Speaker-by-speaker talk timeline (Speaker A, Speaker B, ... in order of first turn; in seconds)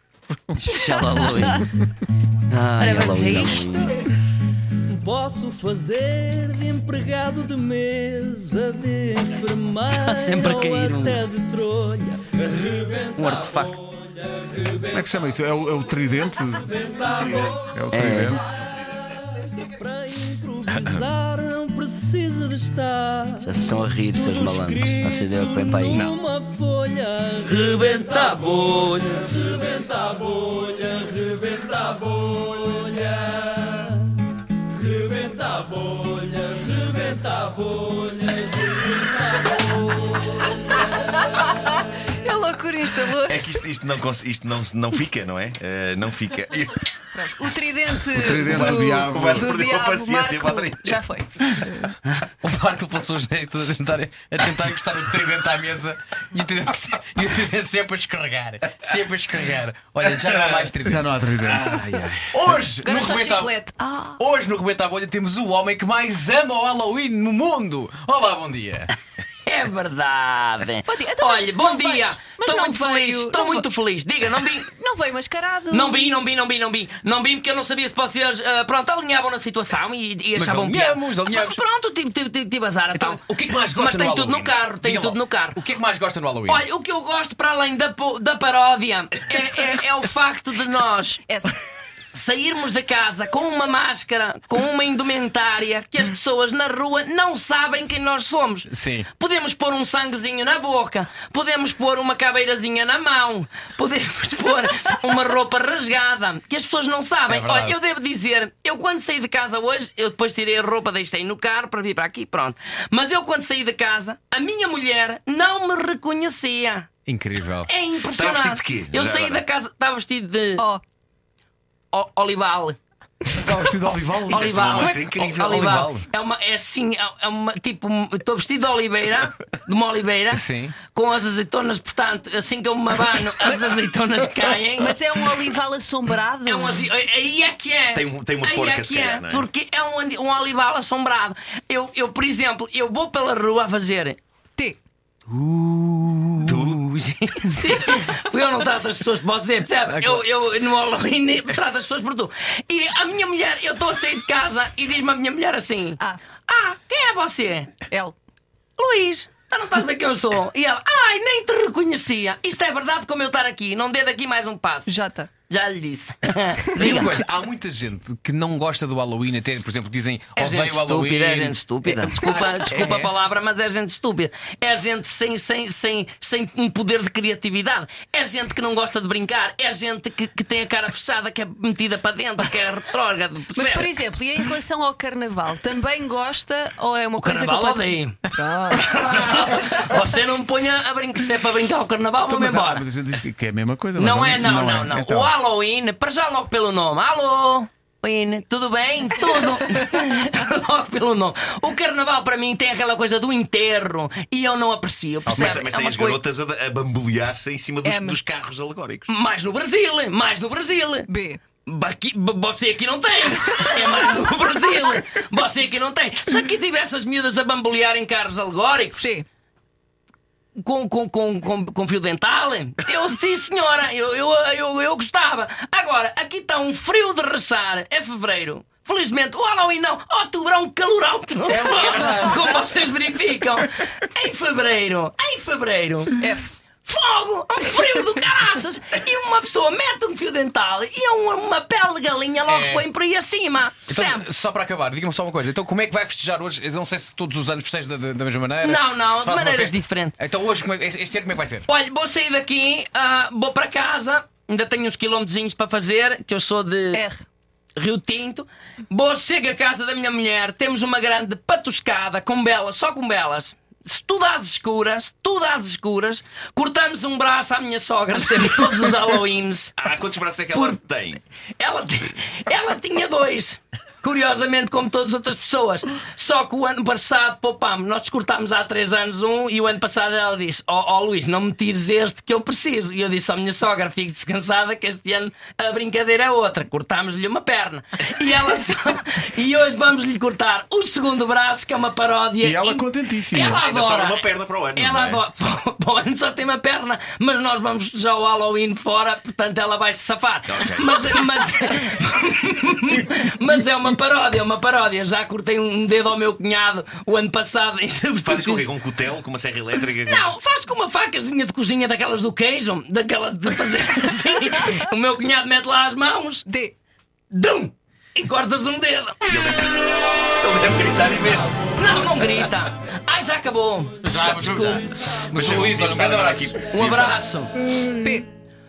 Speaker A: 0.3-1.3, 14.9-18.5, 48.1-49.5, 60.8-61.7, 123.3-124.6, 188.4-188.9, 192.2-195.3, 292.4-293.6
Speaker B: 0.6-1.6, 2.5-4.0, 4.9-7.7, 9.4-12.1, 13.2-13.8, 17.9-18.4, 20.0-21.0, 23.4-26.1, 27.4-29.4, 69.5-74.7, 75.7-85.6, 86.5-91.2, 92.1-116.9, 117.7-120.6, 121.9-122.8, 124.3-135.0, 136.4-144.2, 146.7-157.8, 158.8-164.9, 165.5-167.2, 170.3-183.9, 187.2-188.2, 188.7-192.8, 193.9-206.2, 209.1-211.1, 211.6-219.1, 220.6-236.1, 236.8-244.2, 248.6-250.2, 251.7-257.0, 257.8-269.8, 270.5-270.8, 271.6-308.7, 310.0-316.4, 317.3-319.3, 321.8-324.9, 326.7-327.5
Speaker C: 0.8-1.6, 2.8-4.0, 41.1-43.5, 47.1-51.9, 62.7-64.2, 70.9-73.7, 74.6-76.1, 91.3-91.5, 133.4-133.7, 134.7-136.9, 157.9-158.1, 164.8-165.3, 183.5-188.8, 207.8-208.2, 211.1-211.4, 213.5-214.6, 218.9-219.2, 236.1-236.5, 256.9-257.2, 316.5-316.7, 327.9-328.3
Speaker D: 7.2-11.2, 20.6-23.4, 24.1-27.4, 30.3-30.6
Speaker E: 20.7-21.1, 43.2-46.9, 48.5-51.0, 118.1-119.4, 124.3-125.8, 137.9-139.5, 146.4-146.8, 205.2-209.1, 269.8-271.2, 293.4-295.2, 300.5-301.1, 308.2-310.3, 319.3-319.8, 320.4-321.6, 325.3-327.2
Speaker F: 52.1-63.5, 64.2-69.0, 80.3-81.6, 82.9-86.6, 98.7-99.1, 107.3-107.8, 117.1-117.7, 124.7-126.0, 130.3-130.8, 145.3-146.5, 149.9-150.2, 166.8-173.1, 231.5-232.8, 242.4-242.8, 243.9-251.7, 324.0-326.7